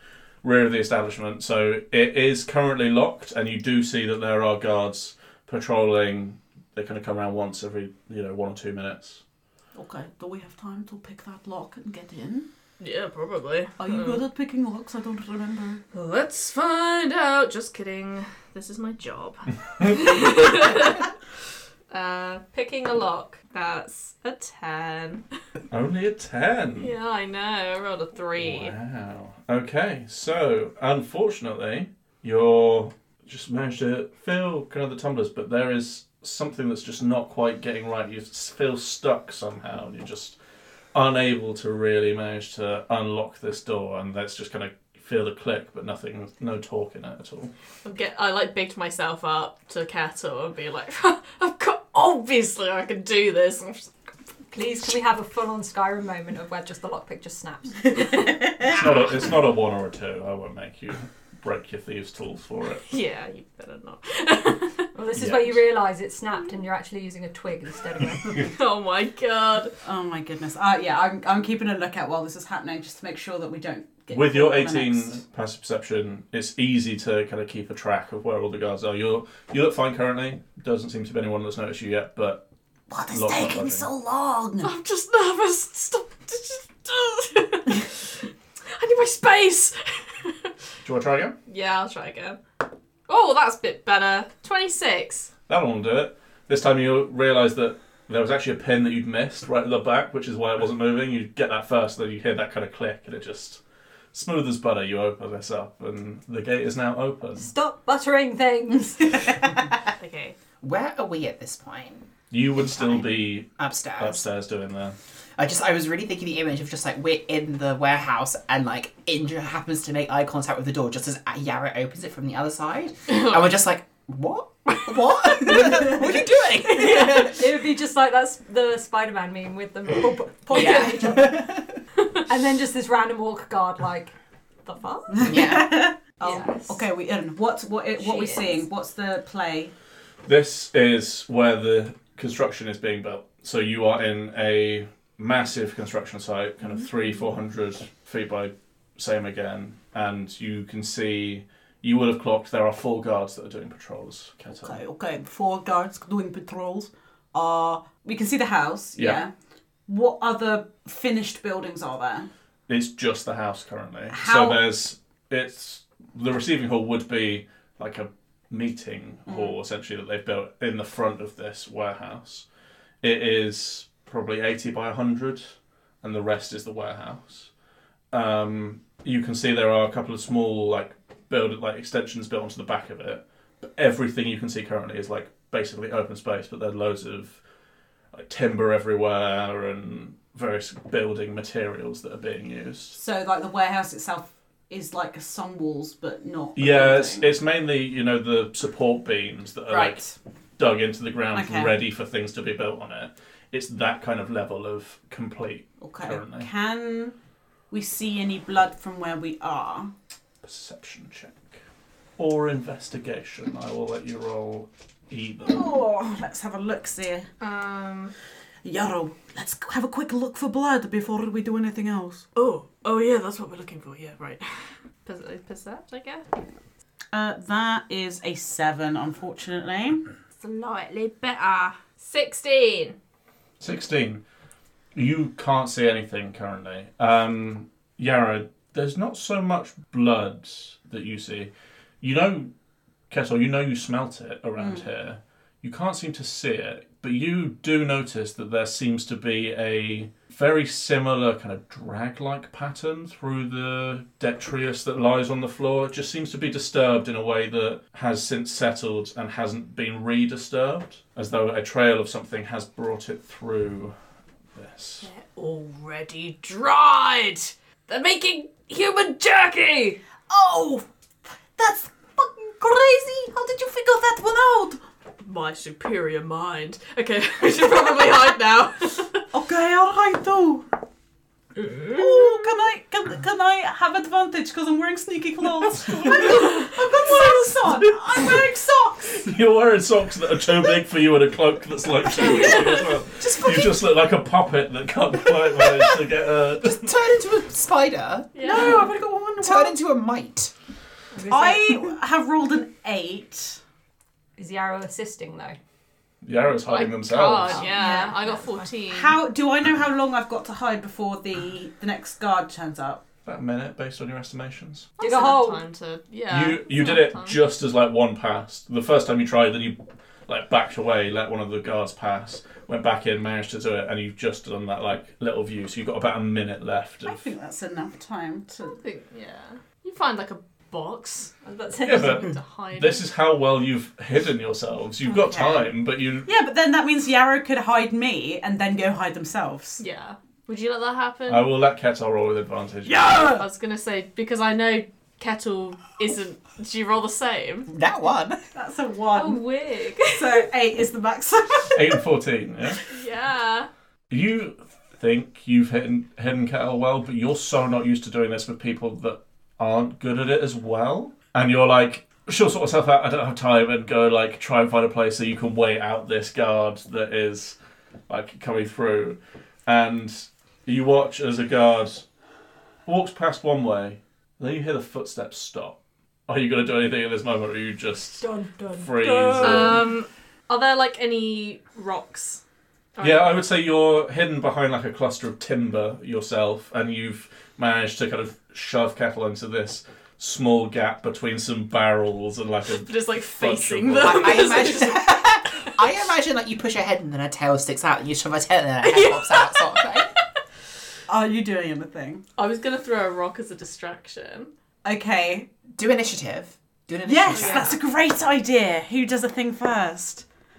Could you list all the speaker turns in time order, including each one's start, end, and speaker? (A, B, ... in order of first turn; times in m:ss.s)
0:00.4-0:09.2 A
0:09.7-0:12.5 B
0:12.8-0:14.2 C
0:13.8-0:15.8 B
0:15.9-0:21.1 C
0:21.9-0:25.2 C
0:25.7-0:26.9 A
0:26.8-0:28.7 C
0:28.3-0:40.4 A
0:40.9-0:47.5 A
0:47.8-0:53.9 C
0:54.5-0:58.1 D
0:58.6-1:02.8 A
1:02.9-1:04.9 C
1:04.9-1:08.4 D
1:05.1-1:05.6 A
1:08.4-1:09.7 C
1:09.8-1:15.2 B
1:14.1-1:22.4 A
1:22.9-1:24.7 B
1:23.1-1:23.9 A
1:24.6-1:30.5 C
1:30.8-1:31.4 A
1:31.5-1:32.4 C
1:33.1-1:35.3 C
1:35.5-1:43.6 A
1:44.1-1:47.5 A
1:47.4-1:49.2 D
1:49.9-1:50.4 C
1:50.6-1:52.1 E
1:52.3-1:55.0 A
1:52.7-1:54.2 E
1:55.4-2:07.4 E
2:03.1-2:03.4 C
2:06.6-2:07.3 C
2:07.3-2:11.4 D
2:10.5-2:11.7 E
2:12.3-2:15.2 D
2:15.1-2:19.7 B
2:15.2-2:15.8 E
2:16.2-2:16.8 D
2:18.0-2:18.6 D
2:20.2-2:34.8 A
2:34.6-2:39.3 B
2:39.0-2:39.2 A
2:39.9-2:42.3 B
2:42.7-2:52.4 A
2:44.1-2:44.6 B
2:49.3-2:49.6 B
2:53.0-2:57.5 A
2:58.1-3:07.4 A
3:08.1-3:13.0 A
3:13.0-3:17.3 B
3:16.6-3:20.0 A
3:19.7-3:20.1 B
3:20.6-3:26.5 A
3:21.3-3:21.8 B
3:25.8-3:27.1 B
3:27.7-3:29.9 B
3:30.4-3:31.6 A
3:32.2-3:35.7 A
3:35.4-3:37.3 B
3:37.4-3:38.1 C
3:38.6-3:42.2 B
3:42.3-3:44.5 C
3:45.0-3:46.2 C
3:47.1-3:50.1 B
3:50.4-3:53.0 C
3:53.6-3:54.2 A
3:54.9-4:02.5 A
4:03.1-4:23.9 A
4:04.6-4:04.8 B
4:24.5-4:25.1 A
4:25.0-4:30.0 C
4:30.3-4:30.8 B
4:31.6-4:34.8 B
4:35.2-4:39.2 C
4:39.3-4:40.7 B
4:41.6-4:42.5 C
4:41.9-4:49.3 B
4:46.2-4:46.7 C
4:47.0-4:48.4 A
4:49.1-4:57.0 A
4:52.2-4:52.8 C
4:53.2-4:53.8 E
4:56.6-4:58.8 E
4:58.3-4:58.9 C
4:58.4-4:59.8 B
4:59.4-5:00.5 E
5:01.1-5:01.9 D
5:01.3-5:03.6 B
5:04.4-5:05.6 D
5:06.2-5:07.7 A
5:06.7-5:09.2 C
5:07.5-5:08.6 D
5:07.7-5:08.1 B
5:08.9-5:13.0 B
5:13.2-5:14.9 A
5:15.0-5:17.4 C
5:15.0-5:15.6 D
5:16.3-5:27.3 A
5:27.0-5:28.8 B
5:28.7-5:31.3 C
5:31.4-5:32.3 D
5:31.8-5:36.3 A
5:32.0-5:33.0 C
5:35.1-5:35.7 B
5:36.2-5:39.8 B
5:39.8-5:41.5 C
5:41.3-5:43.4 A
5:42.9-5:43.4 B
5:43.2-5:47.7 C
5:47.7-5:48.4 E
5:48.5-5:49.4 B
5:49.1-5:50.4 C
5:50.1-5:52.0 B
5:51.7-5:52.8 A
5:52.9-5:53.7 C
5:54.1-6:07.6 A
6:08.1-6:12.0 A
6:12.8-6:18.2 A
6:18.2-6:19.8 D
6:18.8-6:19.8 A
6:19.4-6:22.4 C
6:23.0-6:23.4 C
6:23.0-6:34.6 A
6:32.8-6:35.7 C
6:34.0-6:40.1 E
6:38.8-6:39.7 C
6:41.1-6:42.2 B
6:42.4-6:44.5 C
6:44.8-6:45.5 B
6:45.7-6:47.7 E
6:47.0-6:50.2 B
6:47.3-6:47.8 C